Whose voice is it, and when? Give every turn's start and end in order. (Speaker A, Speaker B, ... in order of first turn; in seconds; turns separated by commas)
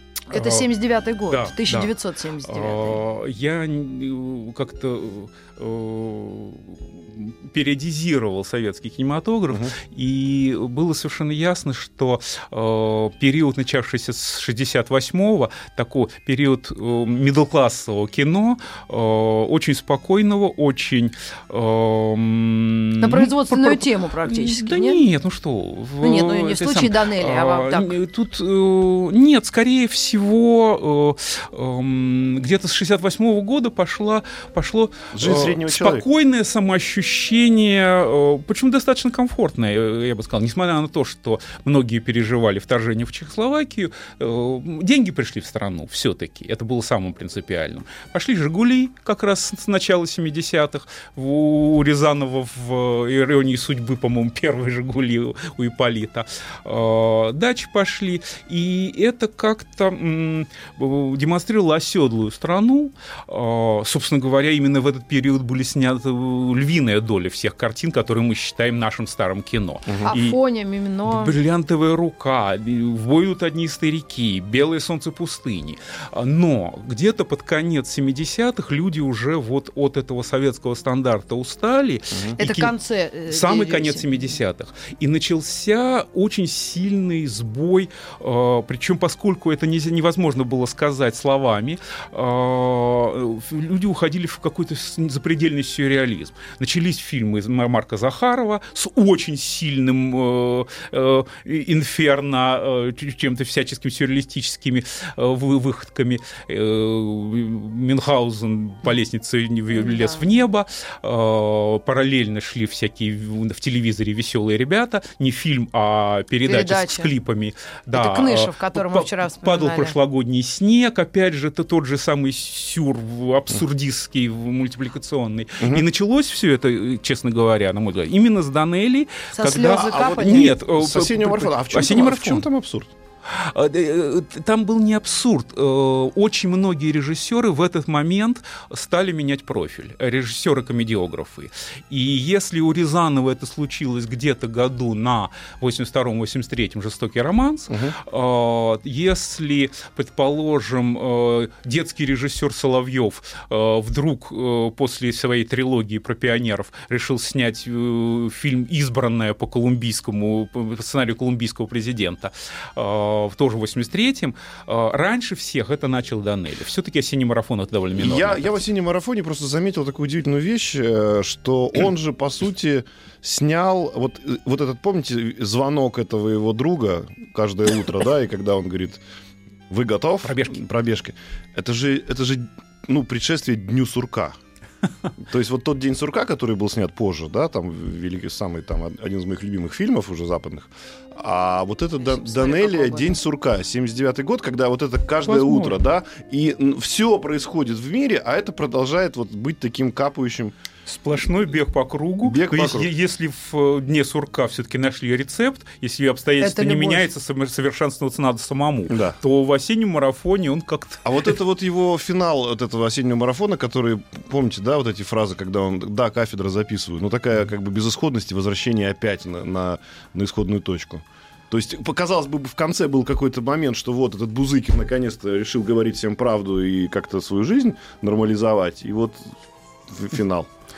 Speaker A: 0.3-3.0, Speaker B: 0.3-0.7, Speaker B: 1.3-1.9, Speaker B: 2.5-70.4, Speaker C: 9.5-9.8, Speaker A: 23.0-25.0, Speaker A: 26.0-27.9, Speaker C: 35.1-36.0, Speaker A: 70.0-71.3, Speaker B: 71.1-82.7, Speaker A: 82.4-84.4, Speaker B: 83.3-132.4, Speaker A: 109.7-110.2, Speaker A: 116.5-117.1, Speaker A: 117.9-120.0, Speaker C: 125.6-125.9, Speaker A: 129.3-130.6, Speaker C: 129.6-132.9, Speaker B: 133.3-168.6, Speaker C: 147.7-148.0, Speaker C: 168.0-179.0, Speaker C: 179.7-184.4, Speaker B: 180.2-180.6, Speaker C: 185.2-200.6, Speaker A: 192.0-193.2, Speaker B: 195.2-195.8, Speaker B: 200.9-211.3, Speaker C: 202.2-202.9, Speaker A: 206.4-207.1, Speaker C: 208.9-209.2, Speaker C: 211.1-229.3, Speaker C: 229.9-230.5